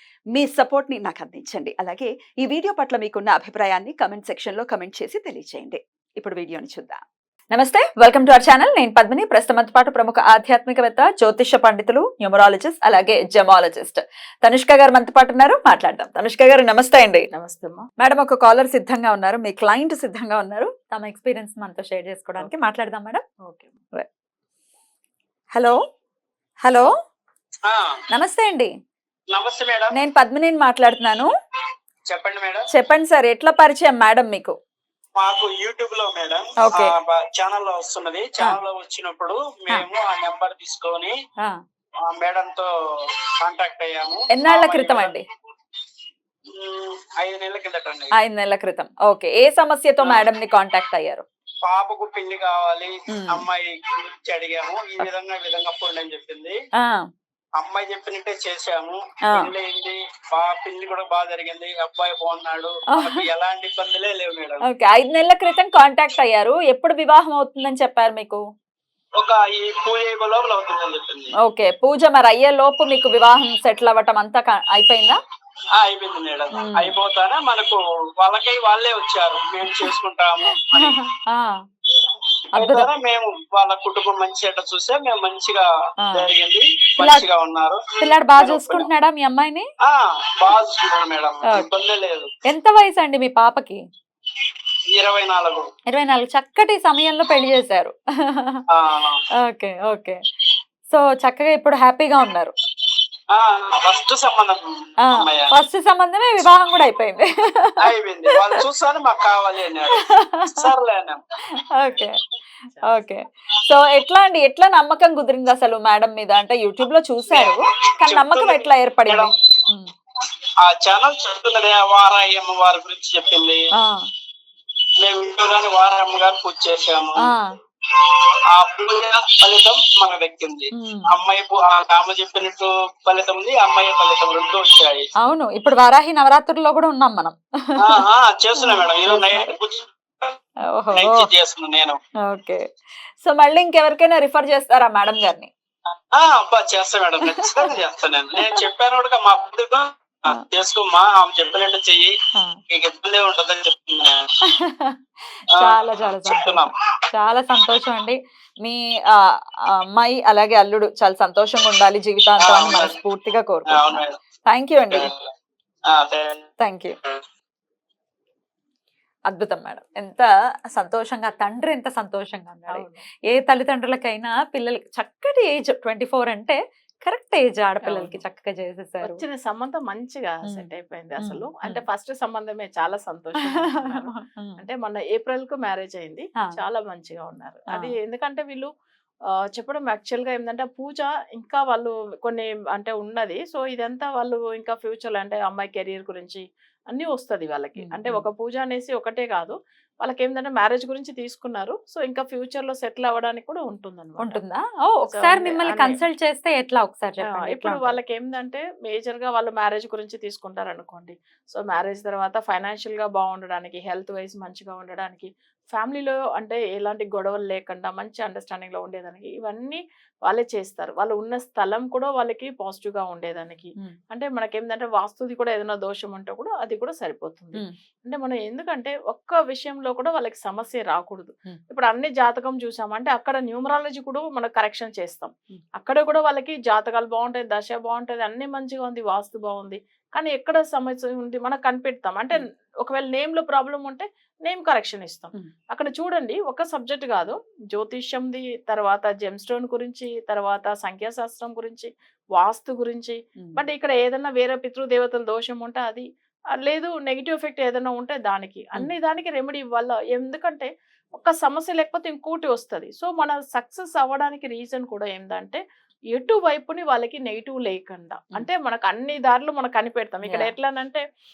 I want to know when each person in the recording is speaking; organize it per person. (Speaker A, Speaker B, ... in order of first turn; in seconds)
Speaker A: 0.3-7.0, 7.5-17.3, 18.0-23.2, 28.1-28.7, 29.9-31.3, 32.7-34.5, 36.6-36.9, 44.3-45.2, 48.1-51.2, 53.1-53.5, 56.8-57.0, 62.9-63.2, 64.7-68.4, 71.4-75.2, 76.6-76.9, 80.7-81.5, 82.6-82.9, 87.0-87.2, 88.0-89.7, 92.5-93.8, 95.9-98.6, 99.4-100.2, 100.9-102.5, 105.1-107.8, 110.0-110.5, 111.8-112.2, 112.9-119.9, 123.7-124.1, 127.2-127.5, 130.7-131.1, 135.2-137.8, 138.6-139.5, 140.7-141.3, 142.2-142.6, 143.2-145.5, 147.4-147.7, 154.5-165.1, 166.6-167.0, 169.3-179.2, 181.2-181.8, 183.6-184.6, 197.8-198.2, 204.2-208.0, 270.2-270.5
Speaker B: 17.3-17.9, 23.4-23.7, 112.7-113.1, 172.7-173.0, 177.8-178.2, 179.0-188.7, 189.5-204.4, 205.1-206.0, 207.2-256.1, 256.6-265.6, 266.1-271.0
Speaker C: 29.3-29.9, 32.1-32.7, 35.2-41.1, 42.1-42.7, 43.4-45.2, 46.6-48.1, 50.0-50.3, 51.6-56.5, 57.6-64.6, 69.2-71.3, 75.8-81.0, 82.0-88.9, 89.8-92.3, 94.9-95.7, 98.7-99.2, 103.3-105.5, 107.8-111.2, 117.3-119.3, 120.6-123.6, 125.0-127.3, 127.9-135.1, 137.8-140.4, 140.9-142.0, 146.1-152.1, 152.7-154.2, 155.6-156.7, 162.4-163.0, 163.7-164.2, 164.9-165.2, 165.9-166.5